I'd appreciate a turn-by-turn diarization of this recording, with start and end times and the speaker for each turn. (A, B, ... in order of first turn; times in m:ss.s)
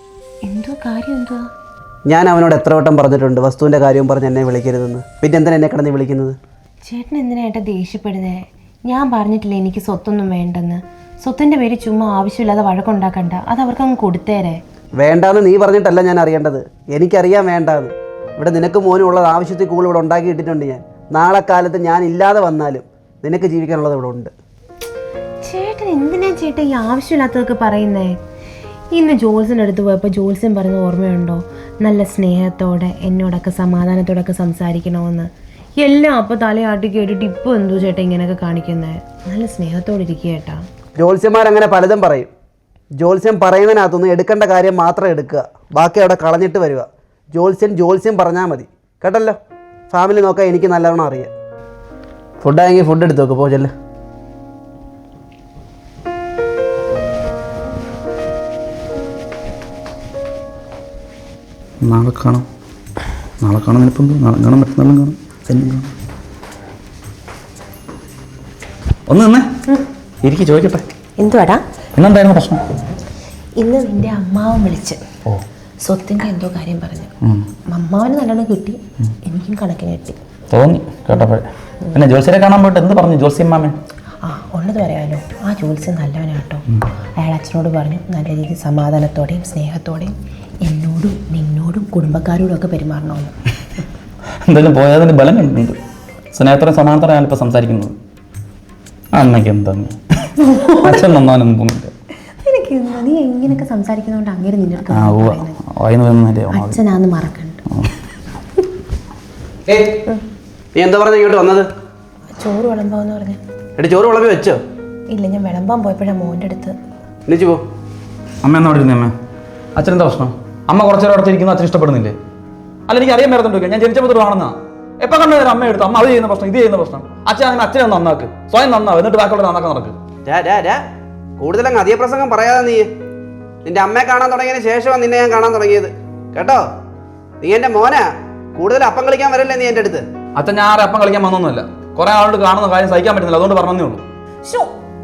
0:00.4-0:01.5 A
0:02.1-0:06.4 B
0:06.9-0:14.6 A
0:15.0-0:24.3 B
0:25.4-0:28.2 A
0:28.9-0:40.6 A
0:41.0-0:42.3 B
0:43.0-0:49.4 B
0:49.9-0:51.3 B
0:52.4-0:53.7 B
1:01.8-1:02.4 C
1:03.4-1:05.9 C
1:09.1-1:09.5 C
1:10.2-1:10.9 C
1:11.2-1:11.6 A
1:12.0-1:12.6 C
1:13.6-1:15.0 A
1:15.8-1:17.1 A
1:17.7-1:20.2 A
1:20.5-1:23.8 C
1:24.2-1:26.6 A
1:27.2-1:33.4 A
1:34.5-1:35.8 C
1:36.3-1:38.0 C
1:39.1-1:41.9 C
1:40.4-1:41.0 A
1:42.4-1:45.6 A
1:44.9-1:46.8 C
1:46.5-1:47.6 A
1:49.7-1:50.0 B
1:50.8-1:51.7 B
1:52.4-1:53.4 A
1:53.8-1:54.6 B
1:55.1-1:56.8 A
1:57.3-1:57.6 B
1:58.4-1:59.1 C
1:59.8-2:02.2 C
2:02.9-2:10.0 C
2:10.3-2:10.8 B
2:11.4-2:12.9 B
2:13.6-2:16.7 B
2:17.4-2:20.1 B
2:20.4-2:24.0 C
2:24.4-2:24.7 A